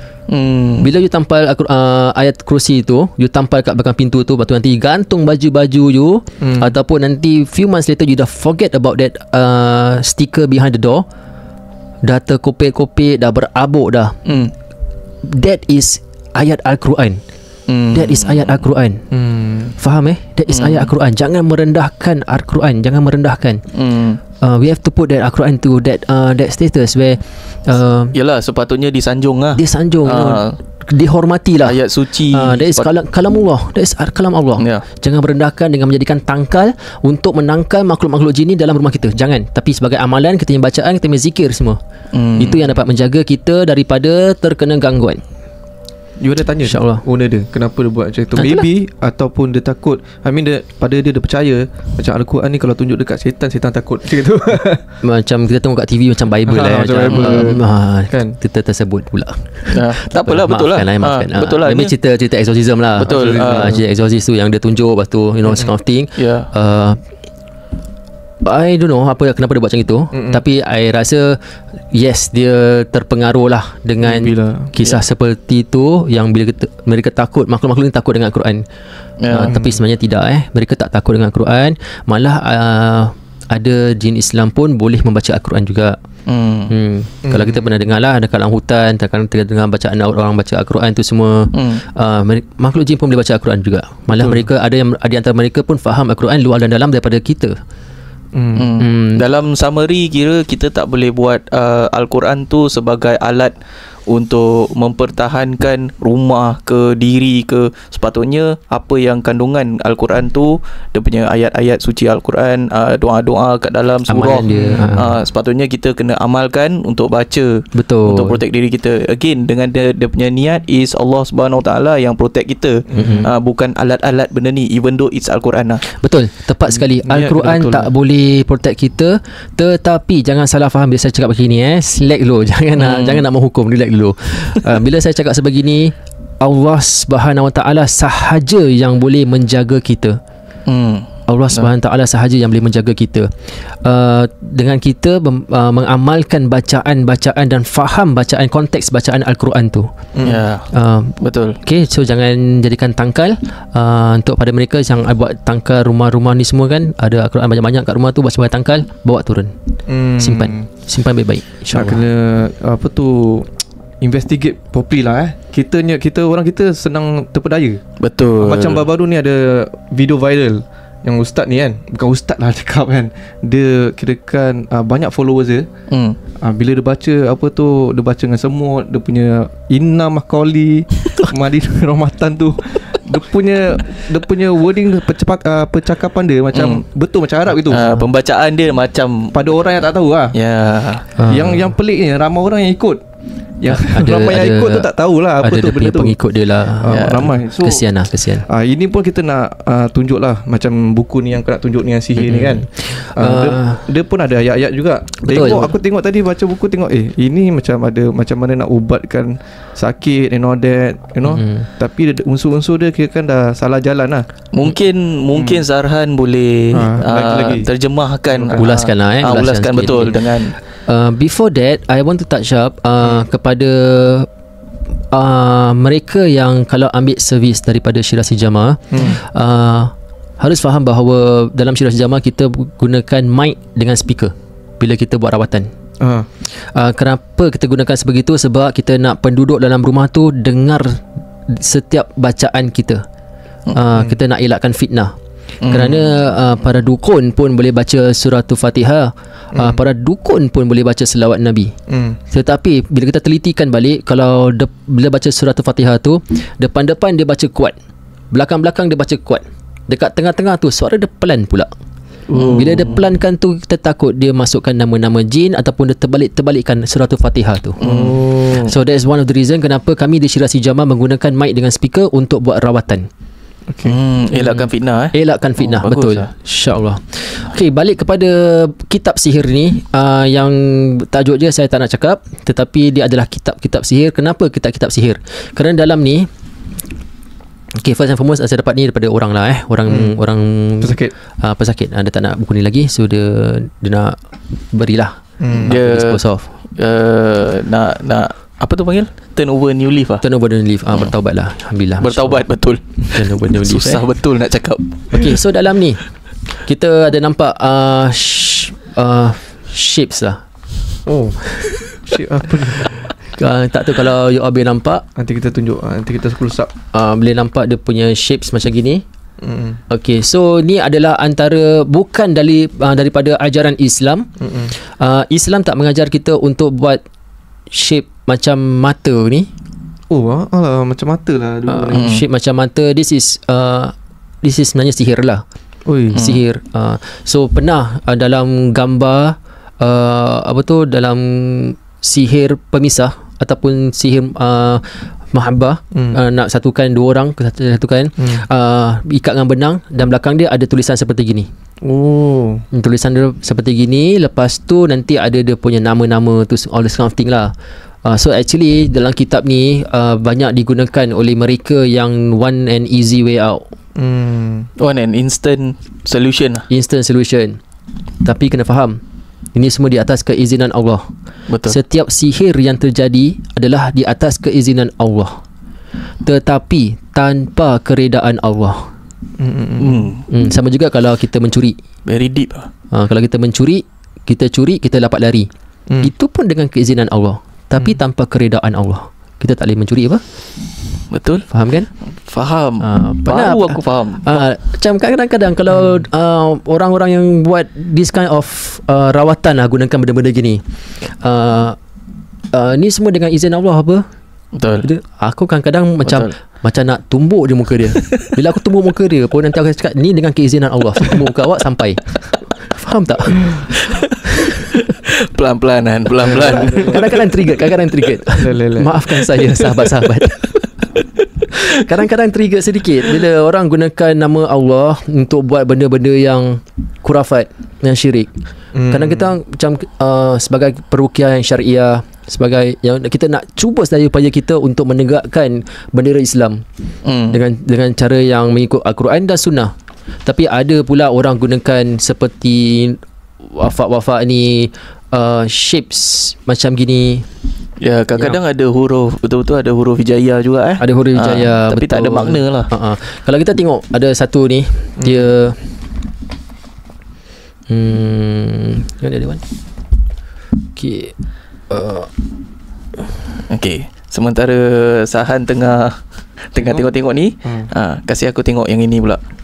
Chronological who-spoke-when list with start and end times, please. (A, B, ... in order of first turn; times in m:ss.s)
0:00.3-0:00.9 A
0:00.8-0:11.0 B
0:06.4-0:06.7 C
0:12.0-0:14.1 B
0:14.2-0:14.5 A
0:15.2-0:17.2 B
0:17.7-0:18.6 A
0:17.9-0:19.0 B
0:19.1-0:19.7 C
0:19.8-0:23.6 B
0:20.5-0:20.9 A
0:23.7-0:24.2 A
0:24.4-0:28.1 B
0:28.1-0:30.6 A
0:29.6-0:31.8 B
0:31.6-0:32.9 A
0:32.3-0:41.8 B
0:34.6-0:34.8 A
0:42.1-0:42.7 A
0:42.4-0:45.2 B
0:46.2-0:54.8 C
0:46.6-0:47.0 B
0:48.4-0:48.6 B
0:55.0-1:07.0 B
0:56.5-0:58.3 C
0:57.1-0:57.6 A
0:59.7-1:01.9 A
1:03.0-1:03.8 A
1:03.0-1:03.8 C
1:06.2-1:06.5 A
1:08.4-1:11.4 B
1:10.1-1:10.4 C
1:11.9-1:18.6 B
1:14.0-1:14.7 C
1:19.2-1:19.6 A
1:19.3-1:26.0 B
1:26.3-1:26.7 A
1:26.7-1:37.6 B
1:27.2-1:27.6 C
1:31.5-1:31.8 A
1:34.2-1:34.5 C
1:38.3-1:38.7 C
1:38.6-1:43.5 A
1:38.8-1:39.2 B
1:44.1-2:05.8 A
1:54.1-1:55.2 B
1:54.5-1:54.9 C
1:57.7-1:58.4 B
2:02.9-2:03.3 C
2:02.9-2:03.3 B
2:05.9-2:20.2 B
2:06.7-2:07.9 C
2:12.8-2:13.2 A
2:20.7-2:21.7 A
2:21.3-2:23.3 B
2:23.8-2:29.9 B
2:30.1-2:30.4 C
2:30.2-2:30.7 A
2:30.7-2:39.5 B
2:31.2-2:31.6 A
2:39.9-2:40.7 C
2:40.2-2:42.0 B
2:41.7-2:43.5 C
2:44.0-2:47.8 C
2:48.0-2:48.8 A
2:48.4-2:55.7 C
2:55.9-2:56.2 A
2:56.4-3:07.8 C
3:06.5-3:06.8 A
3:07.7-3:09.4 A
3:07.7-3:08.0 B
3:09.3-3:10.4 C
3:10.3-3:11.0 A
3:11.2-3:11.7 B
3:11.2-3:13.0 C
3:13.6-3:16.2 C
3:13.7-3:14.9 B
3:15.4-3:18.4 B
3:16.7-3:34.2 C
3:16.9-3:17.3 A
3:22.2-3:23.8 B
3:25.2-3:25.7 B
3:31.2-3:31.7 B
3:34.5-3:40.5 A
3:35.3-3:35.6 C
3:36.7-3:37.7 C
3:38.3-3:38.7 C
3:38.6-3:44.3 B
3:45.1-3:55.7 B
3:48.9-3:49.2 C
3:56.0-3:56.3 C
3:56.5-4:03.0 B
4:03.7-4:05.2 B
4:05.6-4:06.0 A
4:05.7-4:11.7 B
4:09.5-4:09.8 C
4:11.9-4:12.2 C
4:12.3-4:17.8 B
4:18.3-4:21.7 B
4:22.3-4:22.9 C
4:22.3-4:23.0 A
4:22.5-4:27.8 B
4:27.8-4:28.2 A
4:27.8-4:28.7 C
4:28.4-4:33.1 B
4:33.7-4:34.0 C
4:33.8-4:36.3 A
4:34.3-4:46.3 B
4:47.8-4:54.2 B
4:49.9-4:50.2 C
4:50.8-4:51.1 C
4:54.7-4:56.5 B
4:55.4-4:55.7 C
4:55.7-4:56.2 A
4:56.8-5:00.2 A
5:00.2-5:02.4 B
5:02.0-5:05.2 A
5:03.1-5:04.0 B
5:05.1-5:06.0 B
5:06.6-5:10.4 B
5:11.0-5:11.4 C
5:12.0-5:12.9 C
5:12.8-5:15.0 B
5:15.2-5:16.7 C
5:16.9-5:19.0 B
5:19.4-5:19.8 C
5:19.9-5:24.3 B
5:24.4-5:24.7 C
5:24.8-5:27.0 B
5:27.7-5:29.5 B
5:30.1-5:32.1 C
5:31.7-5:35.4 B
5:31.9-5:32.2 A
5:35.8-5:36.2 C
5:36.1-5:51.5 B
5:36.1-5:36.4 A
5:45.9-5:46.2 C
5:48.2-5:48.4 C
5:51.8-5:52.6 C
5:52.7-5:57.5 B
5:58.0-6:03.6 B
6:04.0-6:04.7 C
6:04.8-6:06.6 A
6:06.7-6:07.6 B
6:08.2-6:09.0 B
6:09.5-6:11.1 B
6:11.5-6:11.8 A
6:11.6-6:15.4 B
6:16.2-6:18.9 B
6:19.4-6:20.2 C
6:19.8-6:20.2 A
6:20.3-6:21.8 B
6:22.0-6:22.7 A
6:22.9-6:25.5 B
6:26.0-6:30.2 B
6:31.1-6:31.4 A
6:31.5-6:31.9 B
6:32.2-6:34.4 A
6:32.8-6:41.8 B
6:42.5-6:44.0 B
6:44.5-6:44.9 A
6:44.8-6:53.7 B
6:46.0-6:46.3 A
6:53.7-6:57.3 A
6:56.2-6:57.2 C
6:56.4-7:00.6 B
6:58.3-6:59.0 C
7:01.5-7:08.3 B
7:08.7-7:09.3 C
7:08.9-7:16.6 B
7:17.0-7:17.4 A
7:17.3-7:19.7 B
7:20.2-7:27.2 B
7:27.8-7:32.7 A
7:30.8-7:35.6 B
7:35.0-7:35.3 C
7:37.7-7:39.4 B
7:40.8-7:41.1 B
7:41.7-7:42.1 B
7:43.5-7:46.0 A
7:46.5-7:49.2 A
7:46.6-7:46.9 C
7:47.4-7:47.7 C